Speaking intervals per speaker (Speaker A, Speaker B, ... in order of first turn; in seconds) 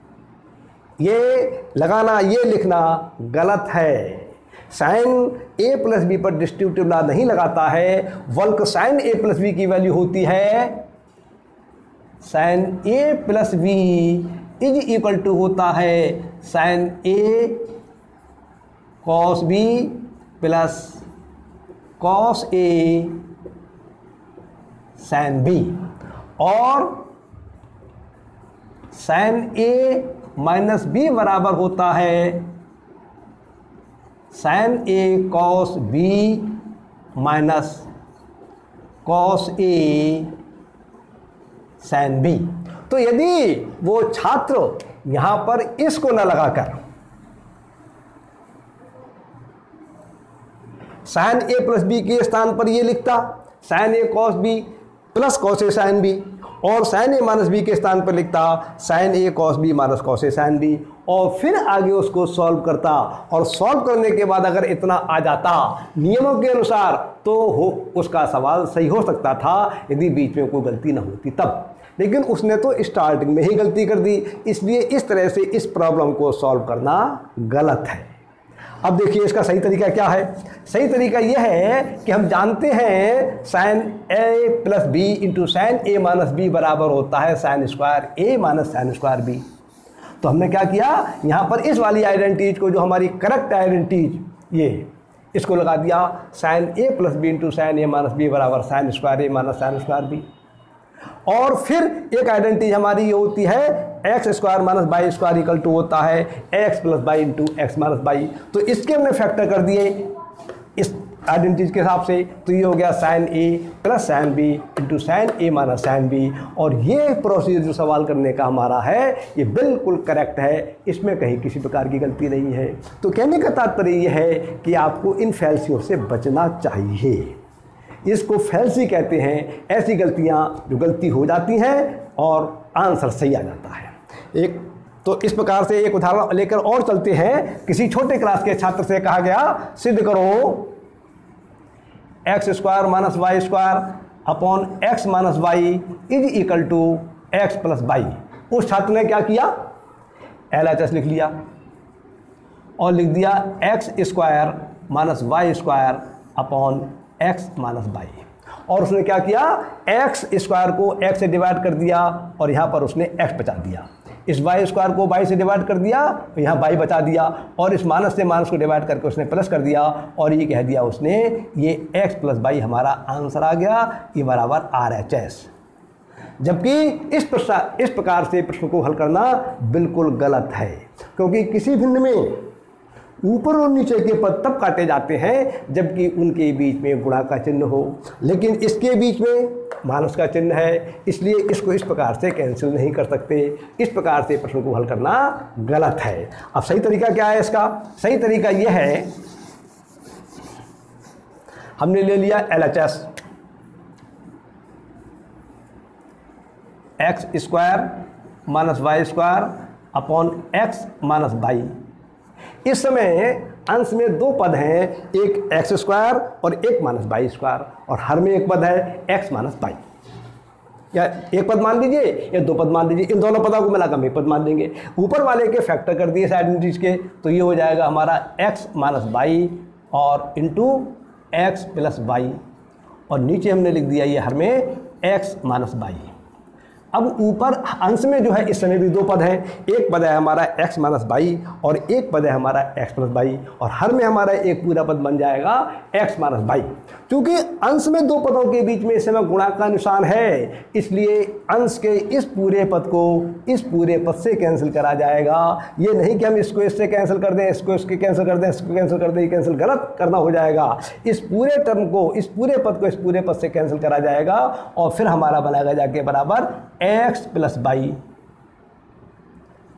Speaker A: 1.0-10.8, 12.2-17.7, 19.0-21.0, 22.0-23.2, 25.0-25.8, 26.4-27.1, 28.9-32.5, 34.3-36.6, 37.2-37.9, 39.0-40.3, 41.8-46.8, 51.1-78.1, 78.8-89.4, 90.2-100.2, 101.3-110.1, 110.8-127.4, 128.1-140.7, 142.3-149.6, 150.5-151.3, 152.8-175.5, 176.4-182.4, 183.2-199.1, 201.8-203.1, 207.0-211.7, 212.7-219.8, 220.9-232.4, 233.1-236.1, 236.9-268.0